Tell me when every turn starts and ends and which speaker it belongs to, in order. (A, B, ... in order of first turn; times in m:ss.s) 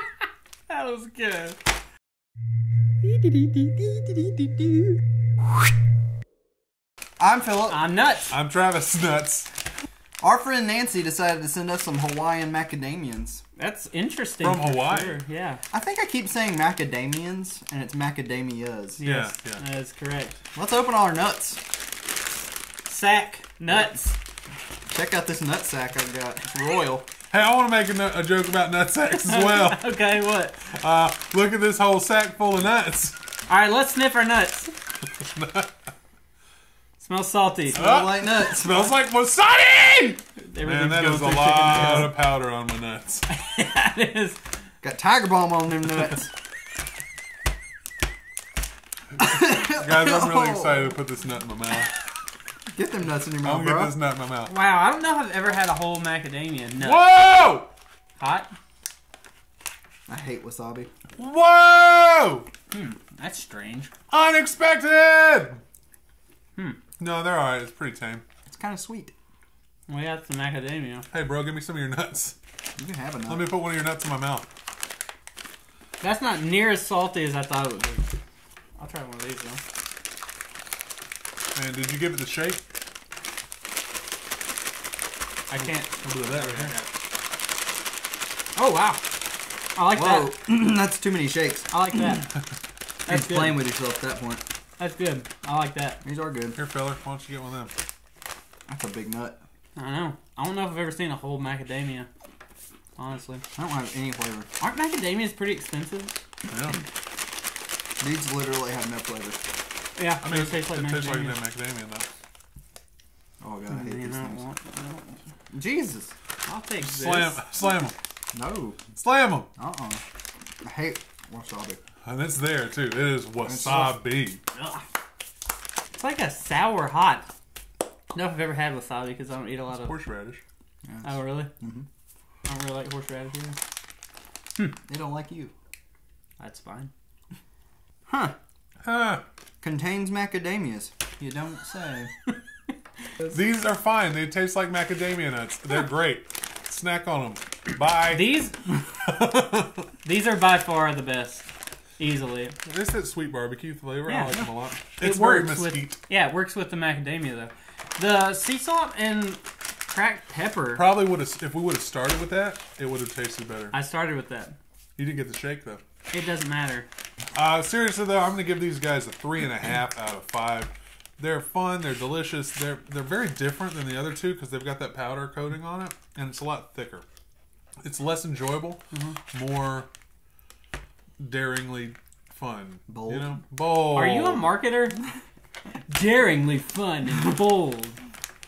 0:00.7-0:01.6 A
0:03.0-0:05.0 A
0:07.2-0:07.8 B
0:07.7-0:08.3 A
0:08.3-0:09.5 C
0:10.2-0:13.4 B
0:13.6-0:15.6 A
0:14.4-0:15.1 C
0:15.7-0:19.0 B
0:19.0-0:20.4 A
0:19.0-0:19.6 C
0:20.5-0:21.6 B
0:22.9-0:24.2 A
0:24.9-0:27.1 B
0:27.3-0:30.0 C
0:29.1-0:30.6 A
0:30.7-0:33.2 C
0:33.5-0:34.7 A
0:35.1-0:35.7 C
0:37.0-0:37.8 A
0:37.7-0:38.9 B
0:37.8-0:43.3 C
0:40.4-0:42.2 A
0:43.3-0:44.4 A
0:44.8-0:46.3 B
0:49.2-0:50.9 B
0:49.5-0:51.9 C
0:52.7-0:53.9 B
0:53.4-0:54.5 C
0:54.4-0:57.0 A
0:56.8-0:57.7 C
0:58.2-0:58.5 A
1:00.1-1:00.9 B
1:01.2-1:02.5 C
1:02.7-1:03.9 A
1:04.1-1:05.6 C
1:07.0-1:08.2 C
1:08.5-1:09.1 B
1:09.9-1:11.1 A
1:11.1-1:12.4 C
1:12.8-1:13.5 B
1:13.3-1:14.5 C
1:16.0-1:18.1 A
1:18.8-1:19.6 A
1:21.5-1:22.6 C
1:25.5-1:26.9 A
1:25.6-1:26.7 C
1:28.6-1:29.0 A
1:29.8-1:30.3 A
1:29.9-1:31.7 B
1:31.7-1:32.3 A
1:33.0-1:33.6 A
1:33.1-1:34.4 B
1:34.8-1:36.0 A
1:36.0-1:36.6 B
1:36.5-1:37.7 C
1:38.7-1:39.4 B
1:39.8-1:42.1 A
1:43.0-1:43.4 A
1:43.6-1:44.5 B
1:44.6-1:46.2 A
1:46.5-1:46.8 C
1:48.0-1:49.4 B
1:50.0-1:51.4 A
1:50.2-1:52.1 C
1:53.4-1:54.4 B
1:53.7-1:55.2 A
1:55.5-1:56.1 B
1:56.4-1:57.4 A
1:56.8-1:57.9 C
1:58.3-1:58.8 B
1:59.0-1:59.5 C
1:59.6-2:00.0 B
2:00.6-2:01.8 B
2:02.0-2:04.4 C
2:03.4-2:04.0 B
2:04.5-2:04.8 A
2:06.0-2:07.3 A
2:08.1-2:10.0 A
2:09.7-2:10.4 C
2:10.8-2:11.8 B
2:11.0-2:11.5 A
2:12.4-2:13.6 A
2:14.9-2:15.5 B
2:16.4-2:16.9 A
2:18.1-2:18.3 B
2:18.8-2:19.2 C
2:19.6-2:22.1 B
2:23.3-2:28.4 C
2:28.1-2:28.6 A
2:29.0-2:29.9 C
2:30.0-2:31.4 A
2:32.0-2:32.6 A
2:32.6-2:36.0 C
2:34.0-2:40.9 A
2:40.7-2:43.8 C
2:43.7-2:44.5 A
2:45.0-2:45.8 C
2:46.1-2:46.9 A
2:47.3-2:57.0 C
2:57.8-2:59.9 C
2:58.9-2:59.2 A
3:01.2-3:04.5 C
3:02.9-3:03.4 B
3:03.9-3:05.0 A
3:05.9-3:08.0 A